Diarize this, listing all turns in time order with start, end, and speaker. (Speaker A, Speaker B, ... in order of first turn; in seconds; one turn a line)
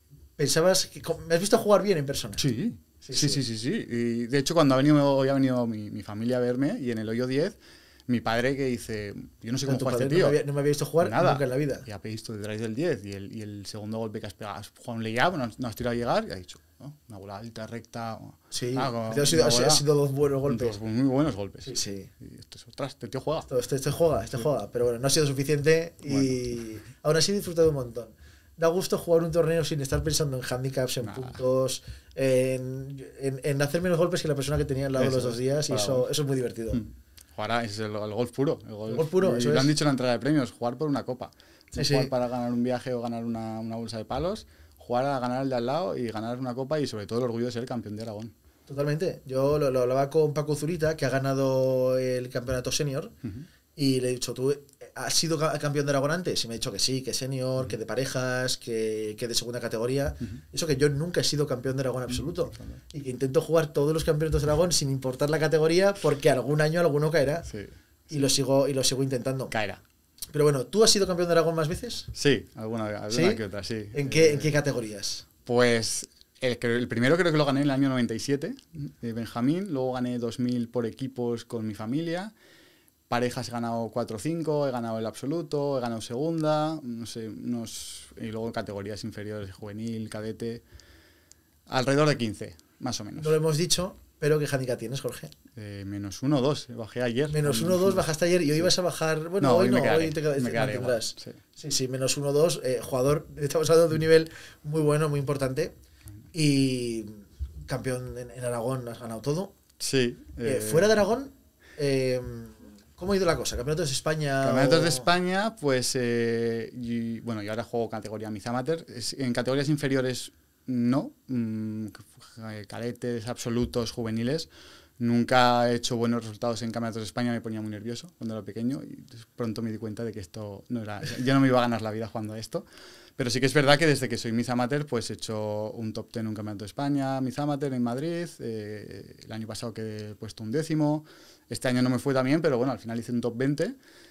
Speaker A: 0.4-2.4
Speaker B: 2.4-10.4
Speaker A: 3.0-3.4
Speaker A: 9.7-11.9
Speaker B: 11.0-19.8
Speaker A: 18.5-20.8
Speaker B: 20.5-23.5
Speaker A: 21.6-22.1
Speaker A: 23.5-36.8
Speaker B: 26.1-26.4
Speaker B: 31.0-31.4
Speaker B: 35.0-36.1
Speaker B: 36.7-48.3
Speaker A: 38.9-39.7
Speaker A: 41.7-42.1
Speaker A: 48.7-53.2
Speaker B: 53.2-53.5
Speaker A: 53.8-67.5
Speaker B: 67.5-68.3
Speaker A: 68.1-69.5
Speaker B: 69.5-69.8
Speaker A: 70.3-72.1
Speaker B: 72.2-74.5
Speaker A: 73.1-73.4
Speaker A: 73.9-75.3
Speaker B: 75.5-82.3
Speaker B: 83.1-90.6
Speaker B: 91.7-93.4
Speaker A: 93.2-95.3
Speaker B: 95.5-98.7
Speaker A: 97.3-105.7
Speaker B: 99.4-101.4
Speaker A: 106.3-109.5
Speaker B: 109.8-111.0
Speaker A: 110.4-115.1
Speaker B: 114.4-132.7
Speaker B: 133.2-143.8